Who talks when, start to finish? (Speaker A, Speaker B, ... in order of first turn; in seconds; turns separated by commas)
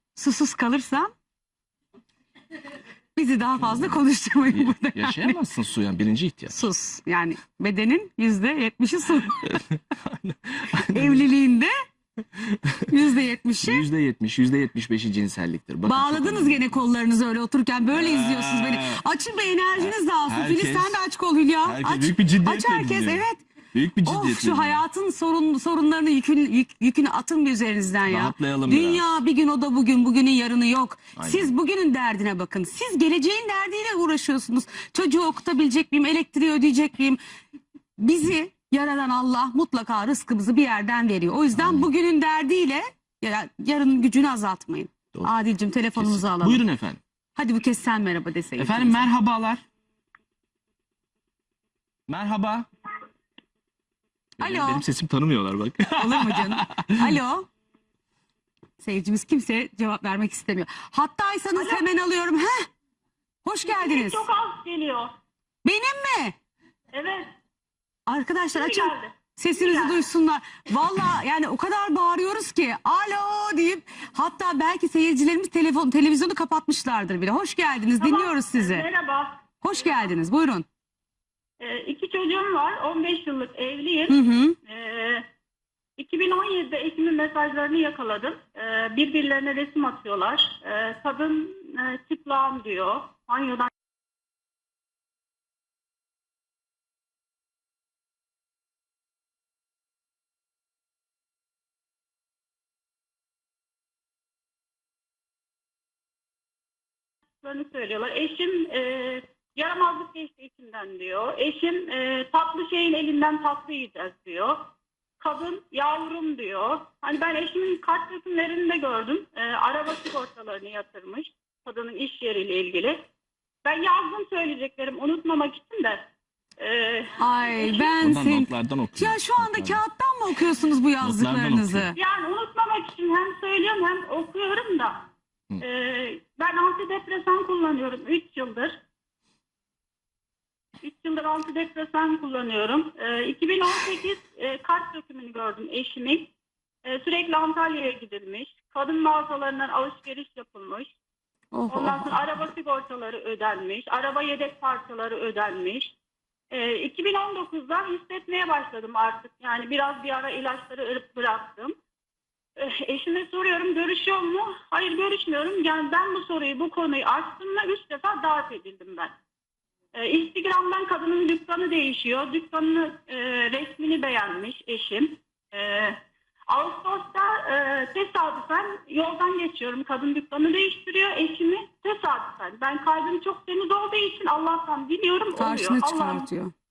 Speaker A: 0.1-1.1, Speaker A: 3.1-5.4, Speaker B: 3.6-6.7, Speaker A: 6.5-9.6, Speaker B: 9.4-11.2, Speaker A: 10.9-11.7, Speaker B: 12.4-12.9, Speaker A: 12.9-13.8, Speaker B: 13.6-16.7, Speaker A: 15.8-23.4, Speaker B: 17.9-19.0, Speaker B: 19.8-21.0, Speaker B: 21.6-24.8, Speaker A: 24.0-37.2, Speaker B: 28.1-29.0, Speaker B: 31.1-31.5, Speaker A: 38.0-46.6, Speaker B: 41.5-41.9, Speaker B: 46.0-47.0, Speaker A: 47.4-49.1, Speaker B: 48.6-49.6, Speaker B: 52.1-52.7, Speaker B: 54.4-57.2, Speaker A: 54.4-54.8, Speaker A: 55.9-57.5, Speaker A: 58.8-62.7, Speaker C: 61.5-61.9, Speaker A: 63.4-64.2, Speaker C: 63.6-65.1, Speaker A: 65.6-66.3, Speaker C: 66.9-67.3, Speaker A: 68.1-78.9, Speaker C: 68.5-70.0, Speaker C: 78.0-80.1, Speaker A: 79.6-80.7, Speaker C: 81.6-85.2, Speaker A: 84.1-84.5, Speaker C: 86.0-93.7, Speaker C: 107.4-123.0, Speaker C: 123.6-126.0, Speaker C: 126.6-128.0, Speaker A: 127.2-131.9, Speaker B: 128.0-129.8, Speaker B: 131.0-131.9, Speaker C: 131.9-135.1, Speaker C: 135.6-138.8, Speaker C: 140.8-146.3, Speaker C: 146.8-150.9, Speaker A: 151.5-152.1, Speaker C: 151.7-155.9, Speaker C: 156.5-161.7, Speaker C: 162.6-169.1, Speaker C: 169.9-186.3, Speaker A: 185.3-186.5